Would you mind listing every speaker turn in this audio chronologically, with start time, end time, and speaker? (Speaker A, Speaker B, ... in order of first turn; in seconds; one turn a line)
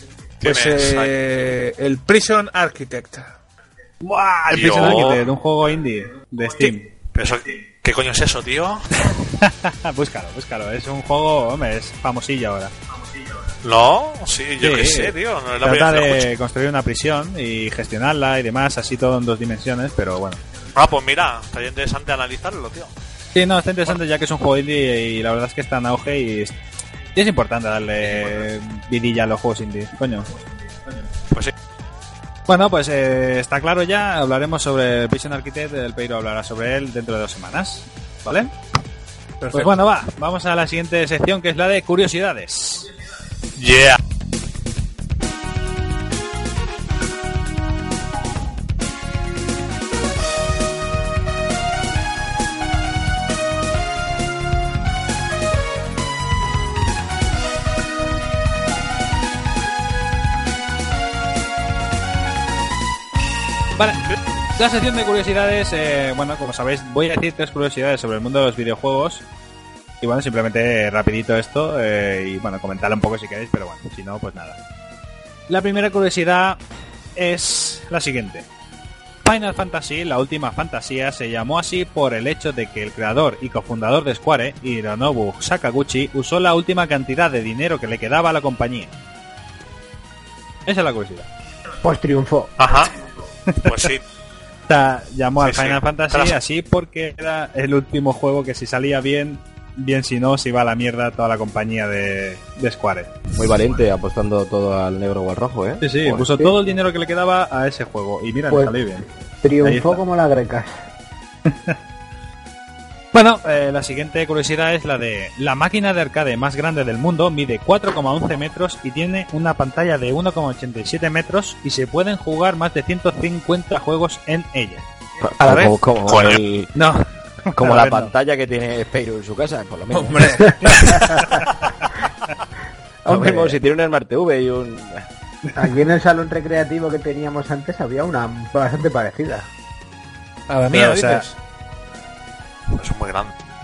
Speaker A: 0.4-1.1
Speaker B: 0.4-3.3
Speaker C: 4.0-6.9
Speaker A: 4.5-5.2
Speaker A: 7.1-8.8
Speaker C: 9.0-12.7
Speaker A: 13.6-16.3
Speaker C: 14.6-20.4
Speaker A: 20.8-22.9
Speaker C: 23.3-26.5
Speaker C: 27.1-30.4
Speaker C: 32.5-38.5
Speaker B: 39.4-39.8
Speaker C: 39.5-42.9
Speaker A: 43.6-44.0
Speaker C: 63.8-64.0
Speaker C: 64.5-69.2
Speaker C: 70.0-74.6
Speaker C: 75.5-76.6
Speaker C: 77.2-78.5
Speaker C: 79.2-88.9
Speaker C: 90.7-91.3
Speaker D: 91.8-92.5
Speaker A: 92.6-92.9
Speaker C: 93.5-93.9
Speaker A: 93.6-94.0
Speaker C: 94.7-103.2
Speaker A: 95.4-96.3
Speaker E: 103.3-106.5
Speaker C: 105.8-109.0
Speaker D: 109.4-110.8
Speaker C: 109.6-110.0
Speaker C: 111.5-111.8
Speaker C: 113.1-124.8
Speaker E: 125.2-126.7
Speaker B: 125.4-125.7
Speaker A: 126.0-126.4
Speaker C: 126.8-128.1
Speaker E: 127.5-130.9
Speaker B: 129.9-130.9
Speaker C: 130.8-131.4
Speaker E: 133.0-135.1
Speaker C: 133.1-133.6
Speaker D: 135.5-139.5
Speaker B: 140.5-141.3
Speaker C: 140.7-141.3
Speaker A: 142.7-143.3